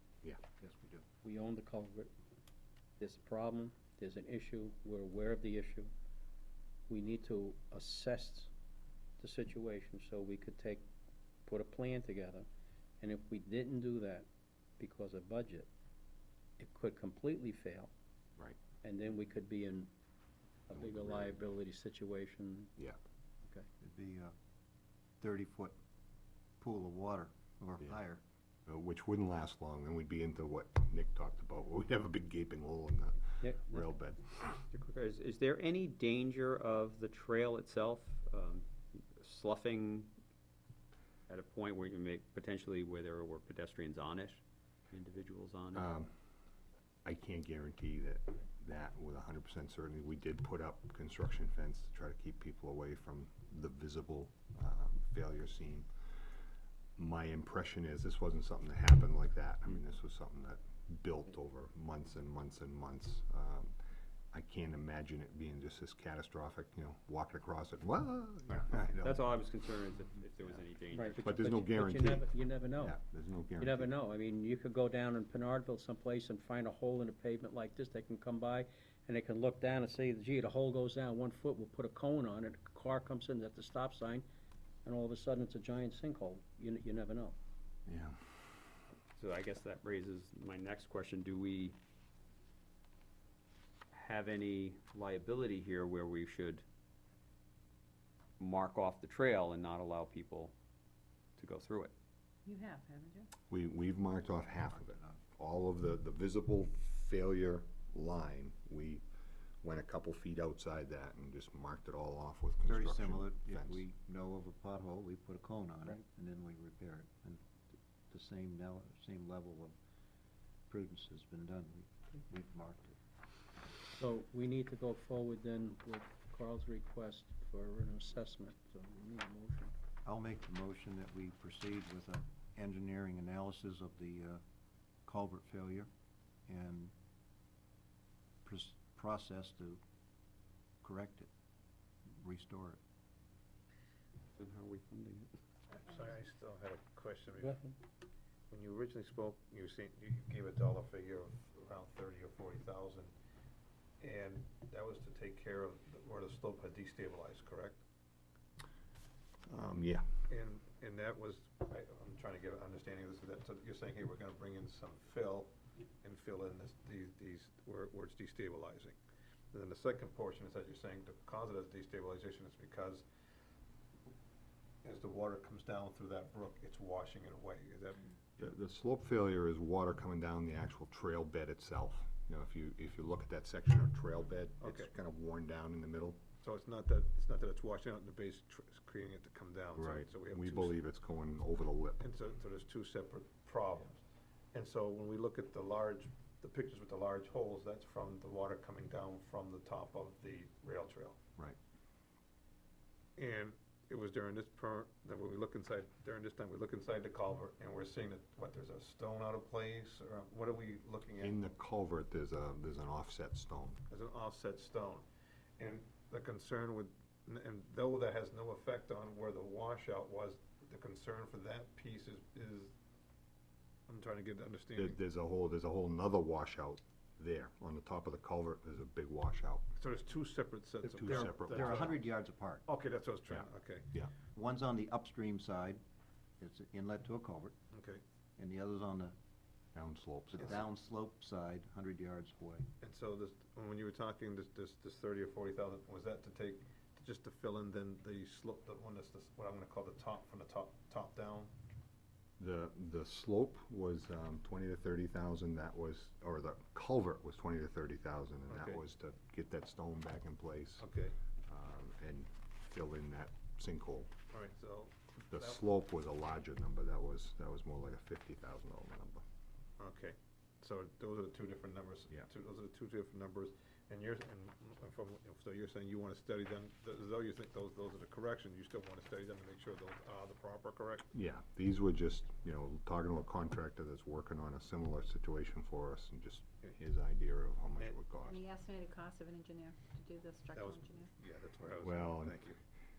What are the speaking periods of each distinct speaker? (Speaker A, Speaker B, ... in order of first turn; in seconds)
Speaker A: 0.6-1.0, 23.8-24.3, 25.2-25.7, 26.6-28.2, 104.7-105.2, 112.7-117.4, 118.1-119.7, 120.7-123.0, 130.0-134.4, 135.1-135.9, 136.5-136.9, 138.4-139.8, 140.8-141.3, 142.2-142.8, 230.8-232.6, 234.3-235.8, 236.4-237.5, 238.4-239.1, 240.3-242.7
Speaker B: 1.2-2.1, 3.0-5.9, 6.9-8.5, 9.2-10.8, 11.4-12.4, 13.0-14.3, 14.8-15.7, 16.6-17.9, 18.8-19.9, 20.7-22.7, 33.4-33.9, 70.9-73.0, 73.6-84.2, 84.8-87.3, 124.0-129.7, 147.4-147.8
Speaker C: 20.7-21.4, 28.6-34.6, 45.7-46.1, 47.0-55.9, 57.0-63.8, 64.3-69.3, 71.2-73.9, 87.9-88.2, 103.5-109.0, 109.6-113.8, 159.4-160.2, 178.4-186.3, 189.7-192.0, 211.2-213.8, 224.7-229.6, 230.8-231.9, 233.3-234.1, 239.7-240.6, 252.4-260.8, 261.5-264.1, 265.3-269.2, 281.1-288.4, 291.7-292.5
Speaker D: 34.7-40.1, 41.3-45.9, 69.0-71.3, 89.2-91.8, 93.9-96.6, 98.4-100.5, 101.4-101.9, 144.4-145.3
Speaker E: 102.5-103.3, 288.2-291.1
Speaker F: 145.7-147.7, 148.5-153.1, 154.0-157.8, 160.3-169.0, 169.5-173.0, 174.8-178.1, 184.6-184.9, 186.4-190.8, 192.0-194.0, 194.5-201.2, 203.2-211.4, 213.9-215.0, 215.6-222.7, 223.9-225.0, 229.8-232.1, 232.7-233.9, 237.7-238.0, 242.8-251.5, 258.5-258.8, 260.8-261.1, 264.3-265.6, 269.8-281.1, 290.5-292.6